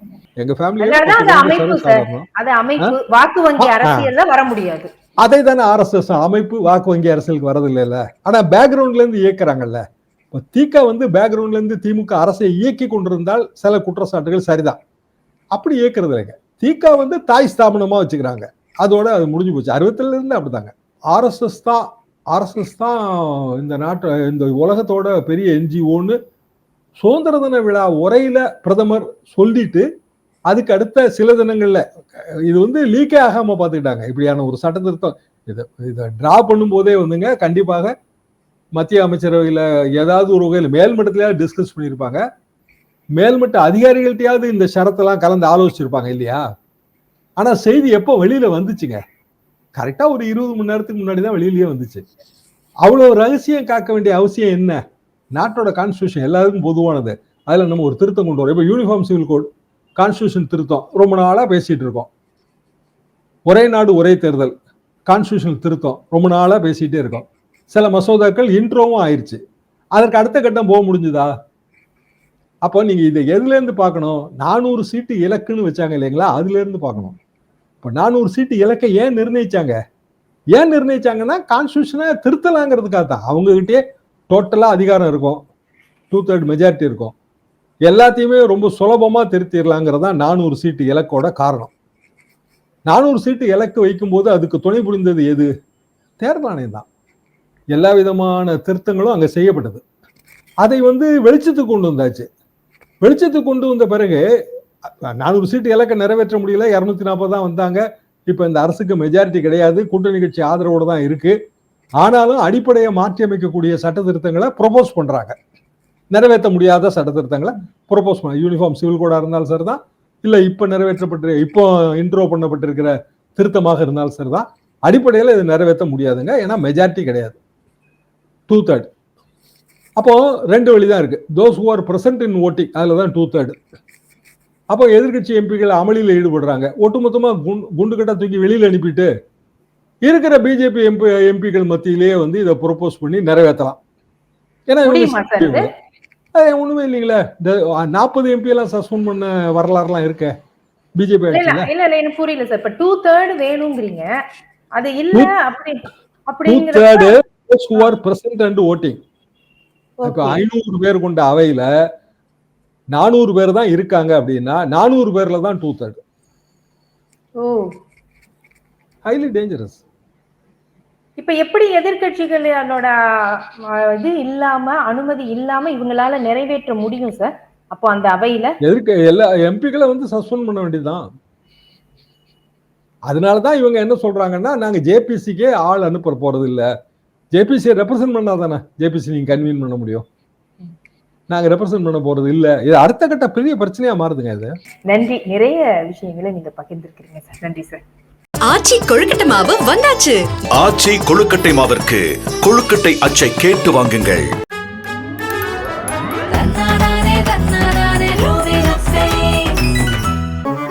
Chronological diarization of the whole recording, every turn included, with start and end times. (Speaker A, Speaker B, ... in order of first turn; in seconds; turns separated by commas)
Speaker A: 0.4-2.3, Speaker B: 0.8-4.9, Speaker A: 3.6-4.1, Speaker A: 5.2-9.8, Speaker A: 10.3-14.8, Speaker A: 15.5-26.2, Speaker A: 27.0-29.9, Speaker A: 30.5-37.9, Speaker A: 38.8-42.2, Speaker A: 43.2-46.4, Speaker A: 47.4-49.0, Speaker A: 49.8-52.0, Speaker A: 52.8-54.8, Speaker A: 55.4-62.1, Speaker A: 63.5-64.5, Speaker A: 65.1-69.4, Speaker A: 70.0-71.3, Speaker A: 72.6-77.2, Speaker A: 77.8-79.7, Speaker A: 80.5-85.4, Speaker A: 86.1-87.1, Speaker A: 87.9-91.7, Speaker A: 92.9-95.5, Speaker A: 96.2-96.9, Speaker A: 97.7-99.8, Speaker A: 100.6-102.3, Speaker A: 103.0-104.2, Speaker A: 104.9-111.3, Speaker A: 112.0-115.4, Speaker A: 116.1-127.4, Speaker A: 128.5-128.9, Speaker A: 130.0-133.6, Speaker A: 134.7-139.1, Speaker A: 140.1-143.8, Speaker A: 144.7-145.7, Speaker B: 144.8-145.7, Speaker A: 146.3-150.3, Speaker A: 151.0-151.7, Speaker B: 151.3-154.1, Speaker B: 154.8-157.2, Speaker A: 156.5-159.0, Speaker B: 160.0-160.4, Speaker A: 160.0-161.7, Speaker A: 162.9-166.0, Speaker B: 167.4-167.7, Speaker A: 169.1-169.8, Speaker B: 171.2-173.4, Speaker B: 174.0-178.5, Speaker A: 178.6-181.0, Speaker A: 183.1-186.7, Speaker A: 187.3-190.1, Speaker A: 191.3-194.5, Speaker B: 194.9-197.8, Speaker C: 198.5-200.2, Speaker D: 200.6-204.3, Speaker D: 206.3-209.6, Speaker C: 207.0-208.1